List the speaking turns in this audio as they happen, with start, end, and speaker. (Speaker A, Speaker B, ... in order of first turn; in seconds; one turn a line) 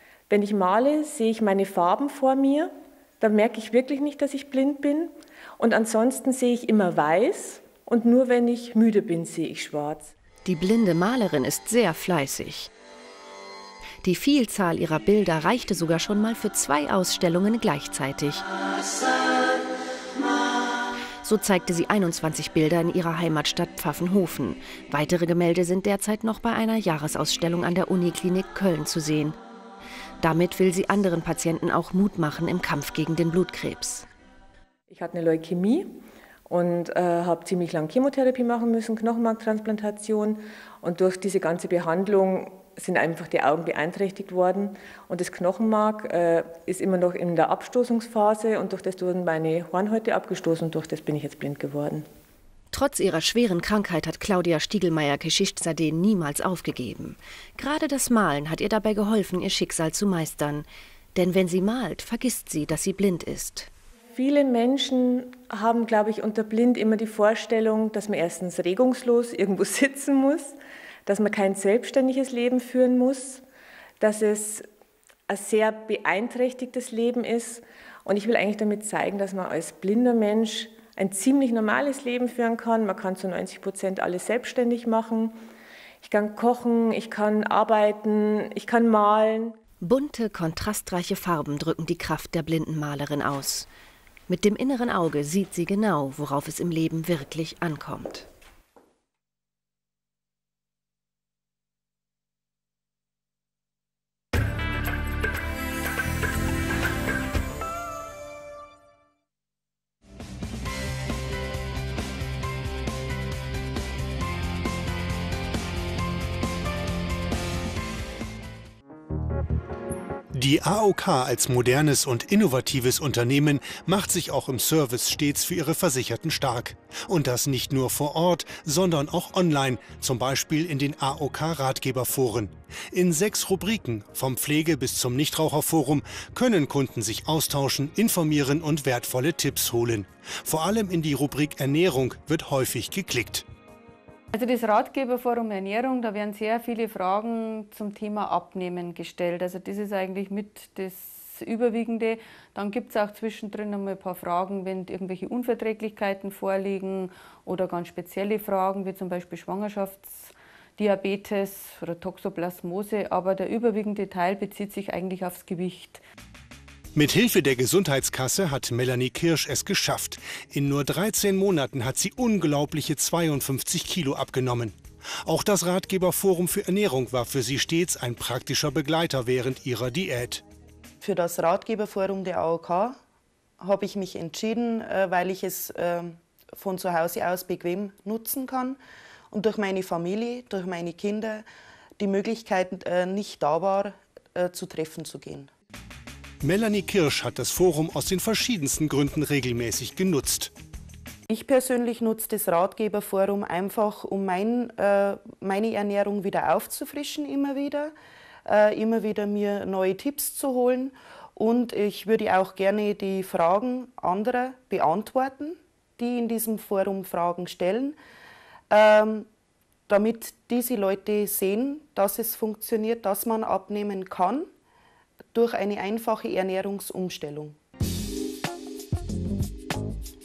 Speaker A: 0.3-10.1
Speaker B: 10.5-12.7
Speaker B: 14.0-18.4
Speaker B: 21.2-29.4
Speaker B: 30.2-34.1
Speaker A: 34.9-36.0
Speaker A: 36.5-52.1
Speaker B: 52.7-63.7
Speaker A: 64.1-70.5
Speaker A: 71.1-73.4
Speaker A: 74.0-74.7
Speaker A: 75.3-85.4
Speaker A: 86.0-89.6
Speaker B: 89.8-93.7
Speaker B: 94.3-98.3
Speaker C: 120.3-143.5
Speaker D: 144.4-160.0
Speaker D: 160.8-166.0
Speaker C: 166.9-180.4
Speaker E: 181.0-182.9
Speaker C: 181.0-182.9
Speaker E: 183.6-188.8
Speaker C: 183.7-185.8
Speaker C: 186.6-188.7
Speaker E: 189.3-191.4
Speaker C: 189.3-191.4
Speaker E: 192.0-195.4
Speaker C: 192.0-195.4
Speaker C: 196.4-200.5
Speaker C: 201.3-205.7
Speaker E: 201.3-207.9
Speaker C: 206.5-207.7
Speaker E: 208.5-217.9
Speaker C: 208.6-210.9
Speaker C: 211.4-217.9
Speaker C: 218.7-219.2
Speaker E: 218.7-219.2
Speaker C: 219.9-224.4
Speaker E: 219.9-224.5
Speaker E: 225.3-227.5
Speaker C: 225.3-227.5